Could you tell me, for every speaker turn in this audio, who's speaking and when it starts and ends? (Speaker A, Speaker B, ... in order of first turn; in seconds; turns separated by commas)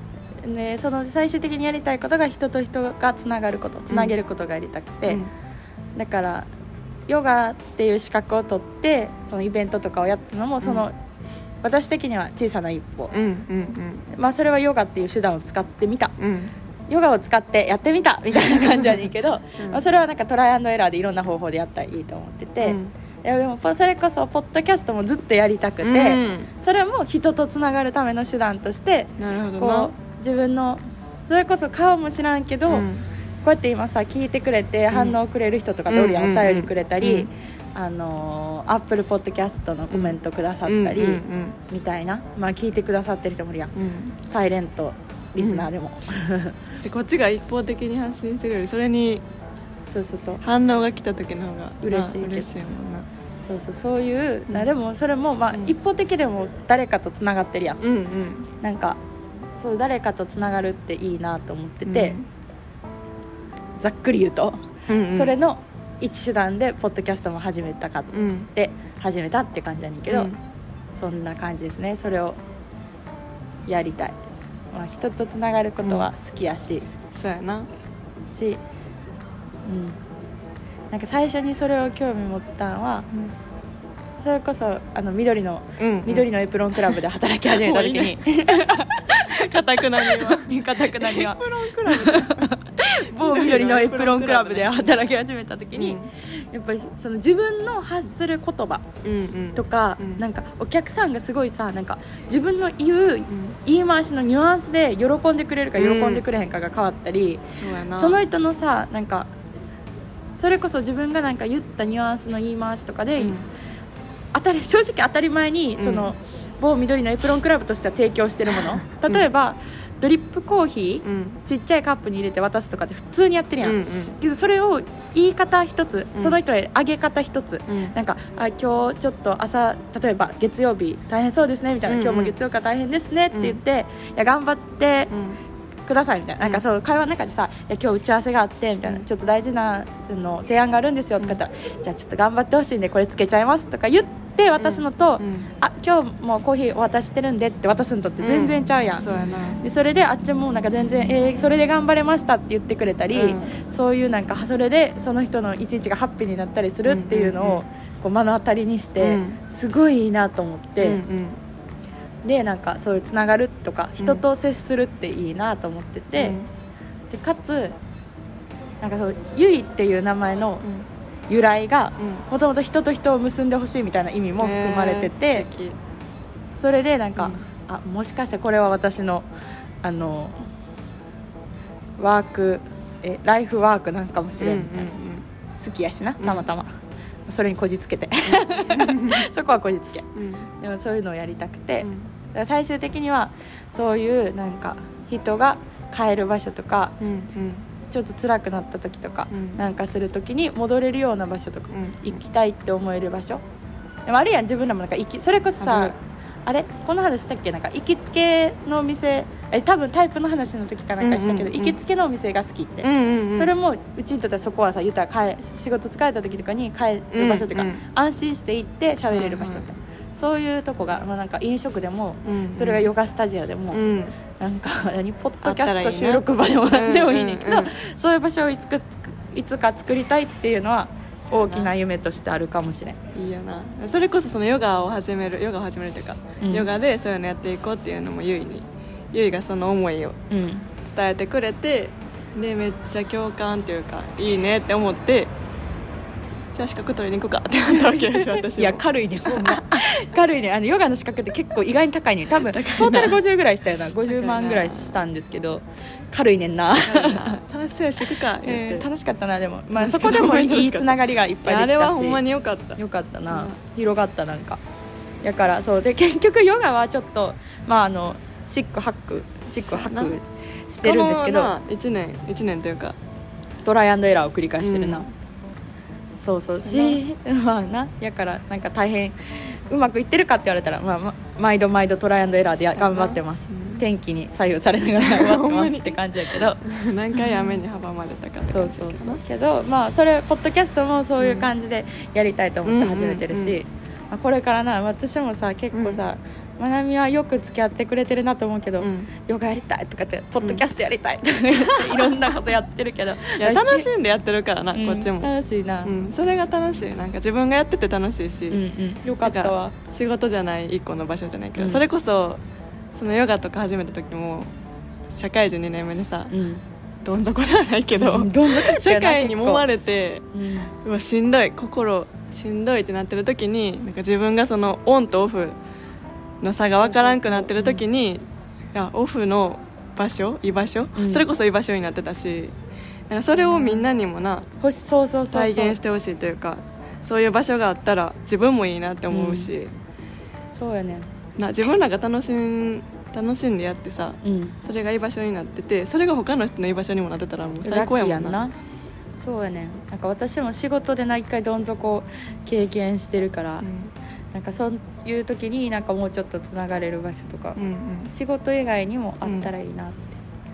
Speaker A: 0.4-5.2, Speaker B: 3.9-4.2, Speaker A: 6.0-6.5, Speaker A: 7.1-11.0, Speaker B: 10.6-10.9, Speaker A: 11.6-13.1, Speaker B: 13.1-14.1, Speaker A: 14.1-16.1, Speaker B: 16.2-16.5, Speaker A: 16.9-32.9, Speaker B: 18.4-19.0, Speaker B: 19.6-19.8, Speaker B: 22.6-22.9, Speaker B: 25.8-26.5, Speaker B: 29.2-29.9, Speaker B: 32.7-33.0, Speaker A: 33.4-46.6, Speaker B: 34.9-35.2, Speaker B: 35.9-37.3, Speaker B: 39.9-41.6, Speaker B: 43.8-44.1, Speaker B: 45.4-45.7, Speaker B: 46.8-49.2, Speaker A: 49.9-50.4, Speaker B: 50.4-53.1, Speaker A: 51.8-52.5, Speaker A: 53.4-57.8, Speaker B: 57.8-58.5, Speaker A: 58.6-59.0, Speaker A: 59.6-62.2, Speaker B: 61.9-62.2, Speaker A: 63.8-70.3, Speaker B: 64.9-65.4, Speaker B: 68.1-68.5, Speaker B: 70.1-70.4, Speaker A: 71.0-72.4, Speaker A: 73.7-74.2, Speaker A: 74.7-76.9, Speaker B: 77.1-77.7, Speaker A: 78.3-78.6, Speaker A: 79.7-80.0, Speaker A: 80.9-83.1, Speaker A: 84.2-89.4, Speaker B: 85.8-86.3, Speaker B: 87.5-88.2, Speaker B: 89.3-95.0, Speaker A: 89.9-98.8, Speaker B: 95.7-96.1, Speaker B: 99.0-100.2, Speaker A: 99.5-109.3, Speaker B: 103.3-103.6, Speaker B: 105.8-106.2, Speaker B: 107.5-108.2, Speaker A: 110.4-113.4, Speaker B: 113.2-113.5, Speaker A: 114.3-135.1, Speaker B: 115.8-116.1, Speaker B: 118.8-119.3, Speaker B: 121.0-121.4, Speaker B: 123.6-124.2, Speaker B: 127.7-127.9, Speaker B: 131.9-132.4, Speaker B: 133.3-133.6, Speaker B: 135.1-135.4, Speaker A: 135.9-149.1, Speaker B: 144.6-145.5, Speaker B: 148.2-149.6, Speaker A: 149.6-161.0, Speaker B: 153.1-153.5, Speaker B: 156.9-157.6, Speaker B: 159.0-159.4, Speaker B: 160.8-161.4, Speaker A: 162.2-166.4, Speaker B: 164.0-164.2, Speaker B: 166.2-166.5, Speaker A: 167.1-167.8, Speaker A: 168.8-170.7, Speaker A: 171.3-175.5, Speaker B: 172.0-172.2, Speaker B: 174.4-175.8, Speaker A: 176.6-179.3, Speaker B: 177.2-177.4, Speaker A: 179.8-180.4, Speaker A: 182.0-184.9, Speaker B: 184.4-185.2, Speaker A: 185.6-190.1, Speaker B: 186.2-186.5, Speaker B: 188.3-189.3, Speaker B: 190.2-190.5, Speaker A: 190.6-197.0, Speaker B: 191.8-192.1, Speaker B: 197.0-197.7, Speaker A: 197.9-203.4, Speaker B: 199.3-199.6, Speaker B: 201.7-202.2, Speaker A: 204.1-223.8, Speaker B: 205.6-205.9, Speaker B: 211.0-211.8, Speaker B: 212.8-213.5, Speaker B: 217.1-217.8, Speaker B: 219.1-219.7, Speaker B: 222.2-222.9, Speaker B: 223.7-224.2, Speaker A: 224.4-233.0, Speaker B: 225.4-227.7, Speaker B: 231.2-231.7, Speaker B: 233.2-240.2, Speaker A: 236.4-236.7, Speaker A: 240.3-240.7, Speaker B: 240.8-245.3, Speaker B: 246.5-249.9, Speaker A: 247.8-257.4, Speaker B: 252.5-253.2, Speaker B: 254.0-255.0, Speaker B: 256.8-258.9, Speaker A: 258.4-262.2, Speaker B: 259.8-263.6, Speaker A: 262.8-264.6, Speaker A: 265.2-271.5, Speaker B: 269.5-270.1, Speaker B: 270.8-273.0, Speaker A: 273.6-275.1, Speaker B: 274.6-275.1, Speaker A: 276.2-286.6, Speaker B: 276.6-277.0, Speaker B: 282.7-283.8, Speaker B: 285.0-289.2, Speaker A: 287.1-287.6, Speaker A: 288.5-303.9, Speaker B: 291.2-291.5, Speaker B: 292.6-293.6, Speaker B: 295.7-296.0, Speaker B: 298.8-299.1, Speaker B: 301.9-302.2, Speaker B: 303.4-305.3, Speaker A: 304.7-305.9, Speaker B: 305.8-308.6, Speaker A: 308.5-309.8, Speaker B: 309.2-312.4, Speaker A: 311.6-311.8, Speaker B: 312.9-314.5, Speaker B: 315.1-316.3, Speaker A: 316.3-316.6, Speaker B: 317.0-320.2, Speaker A: 318.0-319.7, Speaker A: 320.3-320.7, Speaker B: 320.8-325.6, Speaker B: 326.4-332.5, Speaker A: 326.7-327.8, Speaker A: 331.0-331.3, Speaker B: 333.1-334.5, Speaker A: 333.3-333.9, Speaker A: 334.6-335.8, Speaker B: 335.3-339.7, Speaker A: 339.1-339.5, Speaker A: 340.5-341.1, Speaker B: 341.4-348.4, Speaker A: 344.2-344.6, Speaker A: 347.6-348.6, Speaker A: 349.2-353.7, Speaker B: 353.6-353.9, Speaker A: 354.3-357.6, Speaker B: 357.6-358.1, Speaker A: 358.1-360.1, Speaker B: 359.2-359.5